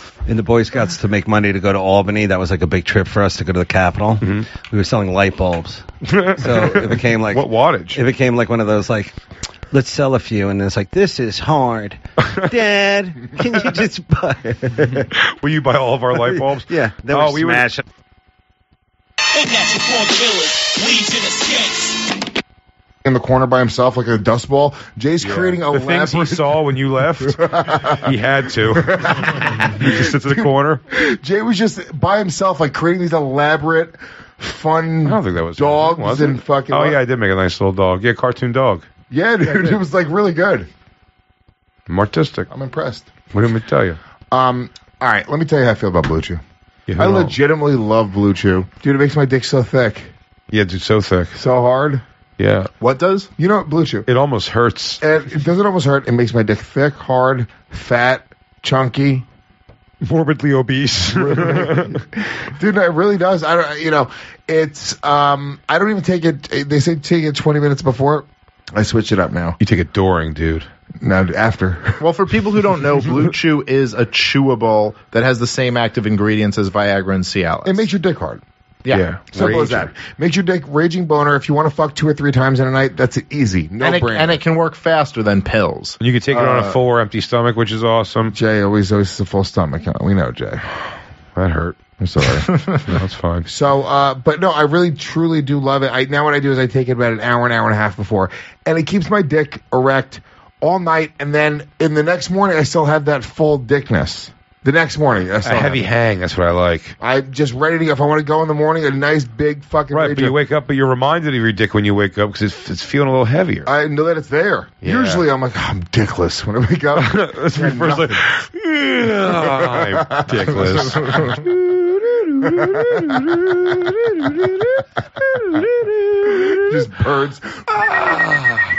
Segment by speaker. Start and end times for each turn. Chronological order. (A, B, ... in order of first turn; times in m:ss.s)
0:00.2-0:05.9 A
0:04.2-0:04.5 B
0:06.1-0:08.0 B
0:06.4-0:09.2 A
0:09.7-0:15.1 A
0:15.2-0:17.7 B
0:16.2-0:17.8 A
0:19.3-0:22.1 C
0:23.0-0:26.6 D
0:25.2-0:27.4 B
0:27.2-0:37.0 D
0:28.0-0:30.8 B
0:35.0-0:38.9 B
0:39.1-0:40.7 D
0:41.9-0:42.5 B
0:42.5-0:43.1 D
0:43.3-0:44.0 B
0:44.3-0:46.4 D
0:46.9-0:47.4 B
0:47.0-0:50.1 D
0:50.5-0:51.4 B
0:51.3-0:52.0 D
0:52.4-0:52.7 B
0:52.8-0:53.3 E
0:53.4-0:54.1 D
0:54.1-0:55.0 B
0:55.0-0:59.2 D
1:00.0-1:02.0 B
1:01.1-1:01.9 D
1:02.6-1:09.6 D
1:09.6-1:10.7 B
1:11.0-1:12.0 D
1:12.0-1:17.9 E
1:17.6-1:18.4 D
1:18.9-1:19.9 B
1:19.3-1:24.4 D
1:23.8-1:26.0 E
1:26.0-1:28.3 B
1:26.3-1:26.8 D
1:28.3-1:30.6 D
1:31.3-1:31.8 B
1:32.0-1:32.5 D
1:32.9-1:33.4 B
1:33.4-1:45.9 D
1:45.4-1:47.0 B
1:47.0-1:50.4 D
1:49.9-1:53.7 B
1:53.6-1:58.2 D
1:56.9-2:01.4 B
1:59.2-2:01.4 D
2:02.6-2:03.0 D
2:06.5-2:08.5 D